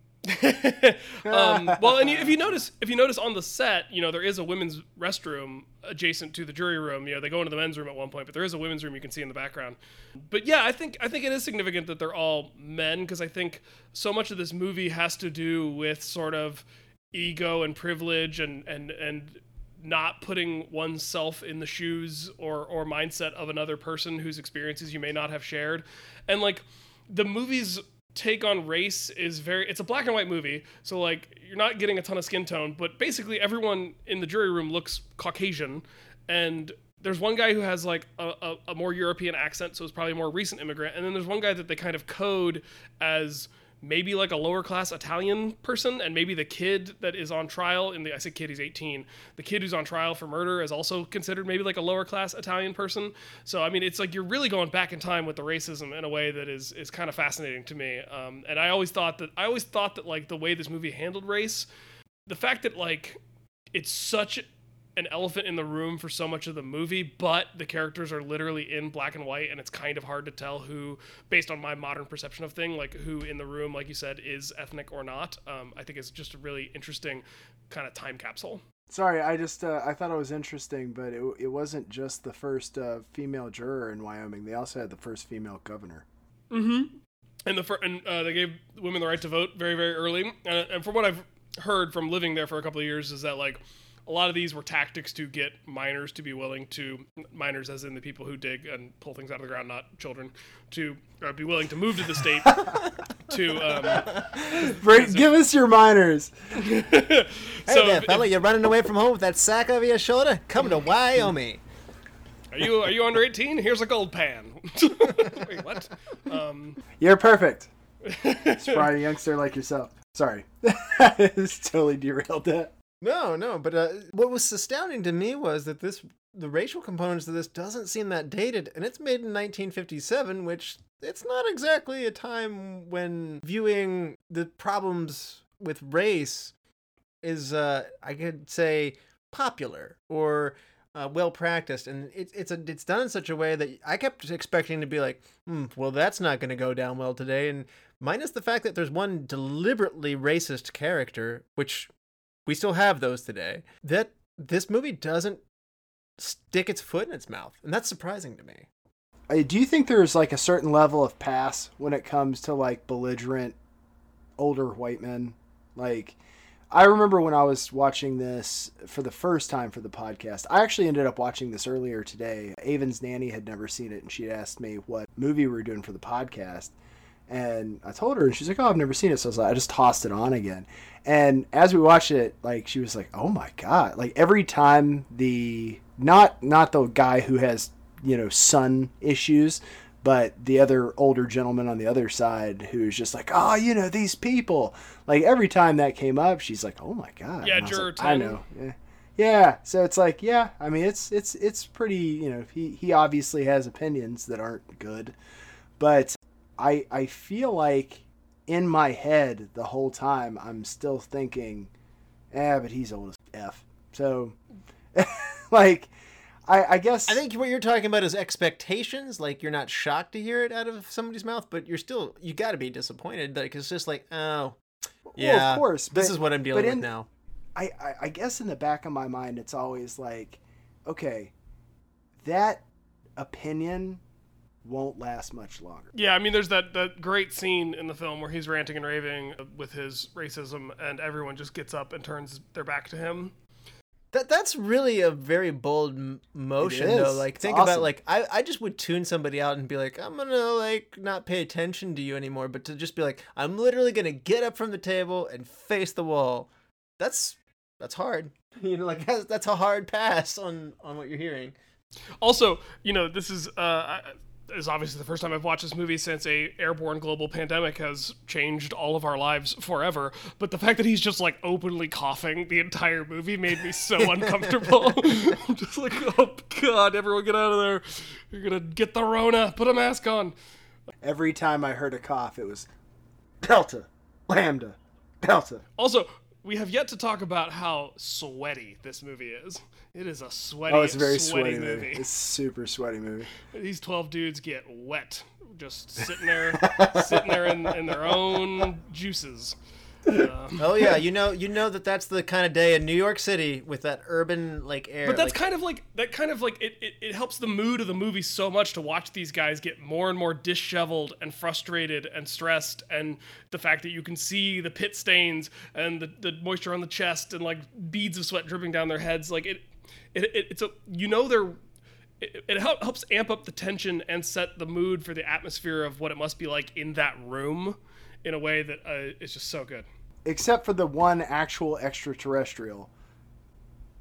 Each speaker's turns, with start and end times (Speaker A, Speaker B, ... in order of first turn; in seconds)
Speaker A: 0.2-61.6, 62.3-63.2, 63.7-78.6, 86.5-102.6, 103.3-105.3, 106.5-108.3, 112.5-116.8, 118.0-118.9, 197.4-198.4, 235.9-243.3, 262.2-280.3, 285.8-292.1, 293.4-299.6, 300.1-300.6, 305.0-321.6, 322.2-329.9
Speaker B: 1.2-2.2, 78.9-86.0, 104.6-106.3, 117.0-117.7, 118.5-122.7, 159.3-163.6, 164.4-166.2, 166.7-176.7, 177.3-205.2, 205.8-211.7, 212.3-214.4, 214.9-215.9, 216.5-217.2, 225.1-226.9, 227.6-231.3, 232.2-232.6, 233.2-234.0, 234.6-235.9, 246.6-247.9, 281.0-282.7, 283.4-285.6, 290.7-293.3, 296.6-297.7, 330.2-332.9
Speaker C: 103.8-104.5, 107.7-111.6, 123.0-136.5, 137.2-151.9, 152.4-155.4, 156.2-158.7, 217.1-224.6, 225.2-227.1, 244.1-261.5, 300.6-305.4